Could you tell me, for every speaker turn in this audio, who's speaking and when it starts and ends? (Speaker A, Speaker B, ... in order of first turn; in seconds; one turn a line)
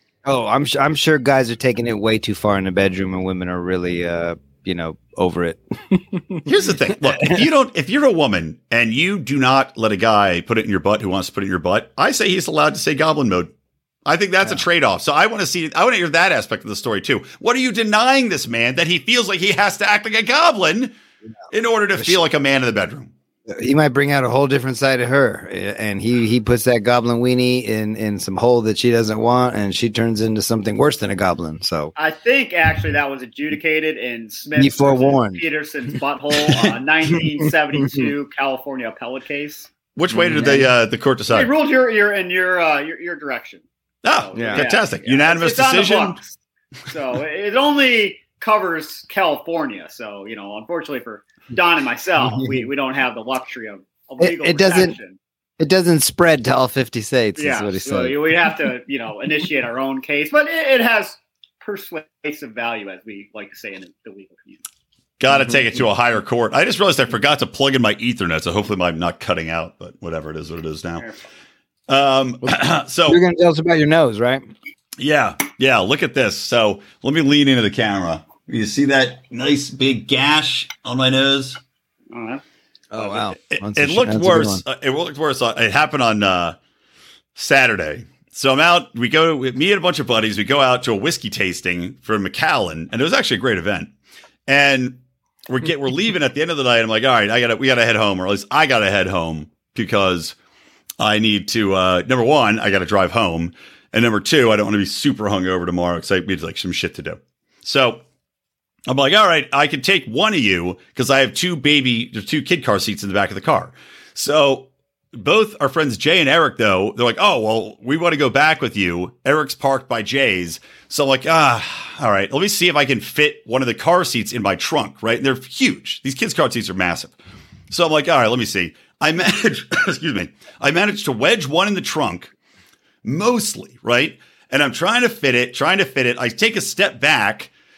Speaker A: 0.2-7.4
Speaker B: 6.4-13.5
Speaker B: 14.1-20.9
Speaker B: 21.5-23.1
Speaker A: 23.5-31.9
Speaker C: 31.9-39.7
Speaker A: 34.5-35.4
Speaker A: 37.1-38.1
Speaker B: 40.0-41.5
Speaker A: 40.1-40.7
Speaker C: 41.3-46.3
Speaker B: 44.0-46.2
Speaker A: 44.3-44.6
Speaker C: 46.9-55.2
Speaker A: 52.2-52.7
Speaker A: 54.2-55.0
Speaker A: 55.6-58.2
Speaker C: 57.4-64.6
Speaker B: 65.2-71.0
Speaker A: 65.3-65.6
Speaker C: 71.0-71.2
Speaker B: 71.9-73.2
Speaker A: 73.0-74.4
Speaker B: 75.0-81.6
Speaker C: 82.1-82.4
Speaker A: 82.9-84.6
Speaker B: 83.0-86.5
Speaker B: 87.3-93.9
Speaker B: 94.5-100.3
Speaker B: 101.0-108.0
Speaker B: 108.9-127.2
Speaker B: 127.7-132.3
Speaker B: 133.0-137.5